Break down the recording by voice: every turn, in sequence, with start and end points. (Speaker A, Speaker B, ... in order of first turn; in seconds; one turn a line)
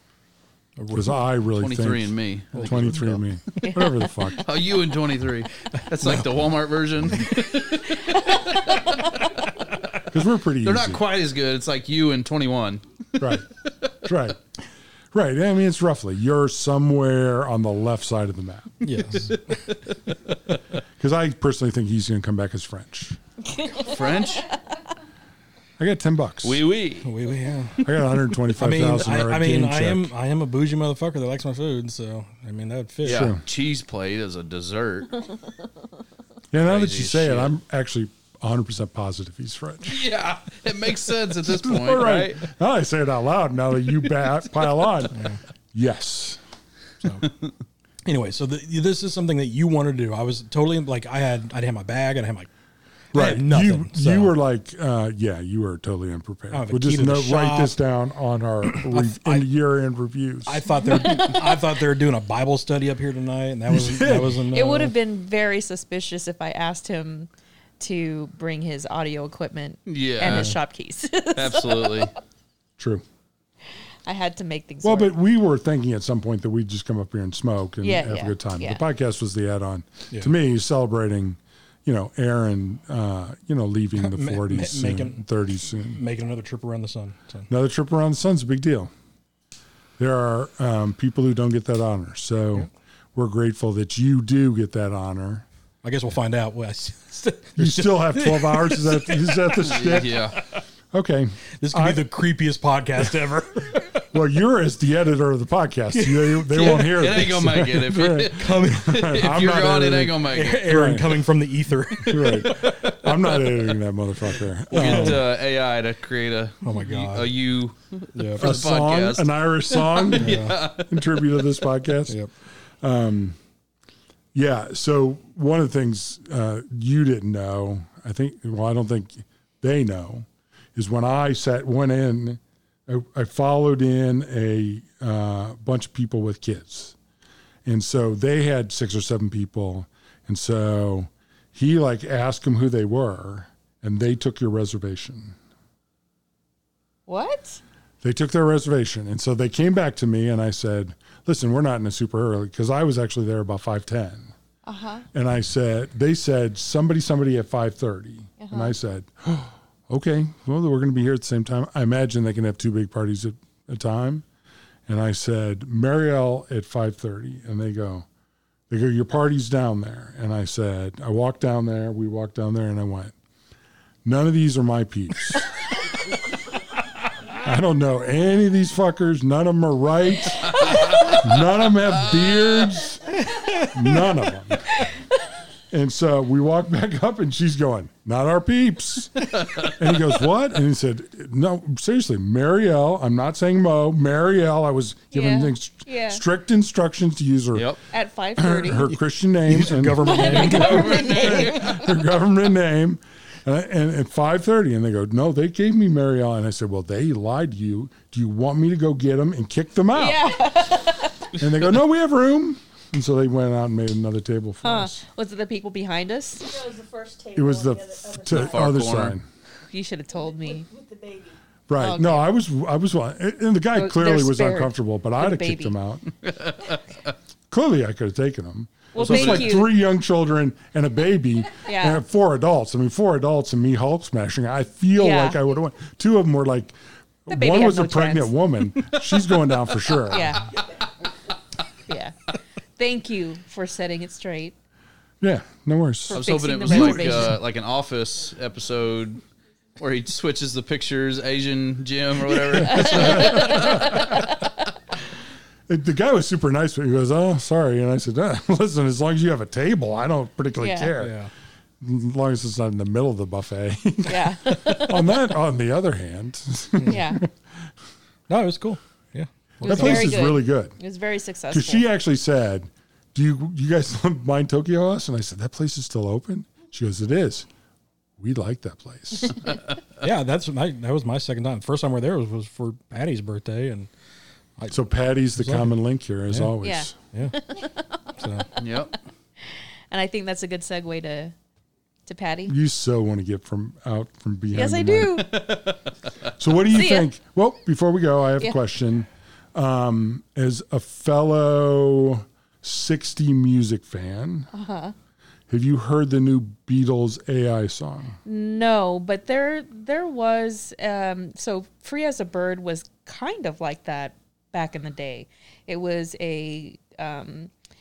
Speaker A: 0.8-1.2
Speaker B: 0.9-4.5
Speaker C: 1.6-3.2
Speaker A: 2.5-3.1
Speaker D: 3.6-4.3
Speaker C: 4.4-7.9
Speaker A: 5.7-6.3
Speaker D: 8.0-9.3
Speaker B: 10.1-11.0
Speaker C: 10.6-12.8
Speaker B: 13.2-13.5
Speaker B: 14.0-14.4
Speaker B: 15.1-19.1
Speaker A: 18.8-19.8
Speaker B: 21.0-23.2
Speaker D: 23.4-24.8
Speaker C: 23.7-24.6
Speaker B: 25.8-26.6
Speaker C: 26.4-27.1
Speaker A: 27.0-33.3
Speaker B: 27.8-30.1
Speaker C: 33.0-35.3
Speaker B: 33.0-33.4
Speaker B: 36.5-40.1
Speaker C: 36.6-37.5
Speaker C: 39.9-42.4
Speaker B: 41.5-45.2
Speaker A: 45.1-45.4
Speaker B: 45.7-46.4
Speaker A: 47.0-47.3
Speaker A: 48.0-52.5
Speaker A: 53.1-54.3
Speaker B: 53.1-60.7
Speaker A: 56.5-57.8
Speaker A: 58.7-59.5
Speaker A: 60.4-64.9
Speaker D: 60.9-61.6
Speaker B: 63.7-64.4
Speaker D: 64.5-72.1
Speaker C: 69.9-70.5
Speaker A: 70.2-70.5
Speaker C: 71.3-72.1
Speaker B: 72.8-73.0
Speaker D: 74.0-75.1
Speaker B: 74.8-86.0
Speaker D: 77.8-78.8
Speaker A: 84.0-87.5
Speaker B: 87.5-88.9
Speaker B: 90.0-95.5
Speaker A: 95.8-99.8
Speaker B: 97.6-100.3
Speaker C: 99.7-100.4
Speaker B: 100.9-102.2
Speaker A: 101.6-104.0
Speaker B: 104.1-111.2
Speaker A: 105.9-109.3
Speaker C: 106.5-110.7
Speaker A: 110.3-112.8
Speaker C: 111.9-113.6
Speaker B: 112.0-115.3
Speaker A: 114.7-115.2
Speaker C: 114.7-121.7
Speaker A: 116.6-117.3
Speaker A: 118.1-118.5
Speaker B: 118.4-122.2
Speaker A: 120.2-120.6
Speaker B: 122.8-123.4
Speaker B: 124.3-136.9
Speaker B: 137.6-145.4
Speaker D: 147.1-147.6
Speaker B: 148.0-154.3
Speaker D: 154.6-155.1
Speaker B: 155.1-164.2
Speaker D: 158.4-158.7
Speaker B: 164.9-168.1
Speaker B: 168.7-173.1
Speaker B: 174.0-175.5
Speaker B: 177.4-184.9
Speaker D: 180.5-180.8
Speaker A: 183.2-183.7
Speaker B: 185.7-197.8
Speaker C: 189.4-189.7
Speaker D: 195.1-196.2
Speaker C: 197.5-197.8
Speaker D: 197.9-198.9
Speaker B: 198.4-210.2
Speaker A: 199.4-201.0
Speaker D: 200.0-201.9
Speaker C: 200.4-201.7
Speaker D: 209.9-211.3
Speaker B: 211.4-215.0
Speaker D: 214.6-216.6
Speaker E: 216.4-218.8
Speaker B: 217.3-219.2
Speaker C: 218.3-219.2
Speaker D: 219.7-220.7
Speaker E: 220.1-221.4
Speaker B: 221.7-226.1
Speaker D: 221.8-222.2
Speaker D: 223.7-225.8
Speaker C: 226.2-226.8
Speaker B: 227.5-240.4
Speaker D: 228.9-229.7
Speaker C: 229.0-229.7
Speaker D: 231.7-232.0
Speaker D: 235.0-235.4
Speaker D: 237.3-238.3
Speaker D: 240.0-240.5
Speaker D: 241.9-244.5
Speaker B: 245.2-247.2
Speaker D: 246.1-247.4
Speaker C: 246.1-249.2
Speaker C: 249.8-254.0
Speaker B: 252.5-254.3
Speaker D: 252.6-254.2
Speaker B: 255.7-261.1
Speaker D: 260.6-260.9
Speaker A: 261.0-261.3
Speaker B: 261.8-267.6
Speaker D: 264.1-265.3
Speaker D: 266.9-267.2
Speaker A: 268.3-270.2
Speaker D: 269.6-271.8
Speaker B: 269.6-270.8
Speaker B: 271.5-277.5
Speaker B: 278.2-279.6
Speaker A: 280.0-283.9
Speaker B: 284.7-286.9
Speaker A: 285.4-285.8
Speaker D: 286.6-288.1
Speaker A: 288.2-288.5
Speaker C: 288.6-288.9
Speaker D: 289.9-291.3
Speaker D: 292.1-292.5
Speaker B: 292.5-295.4
Speaker D: 294.5-295.5
Speaker B: 296.4-304.5
Speaker D: 296.7-297.1
Speaker D: 304.5-304.9
Speaker B: 305.5-308.2
Speaker D: 308.2-317.5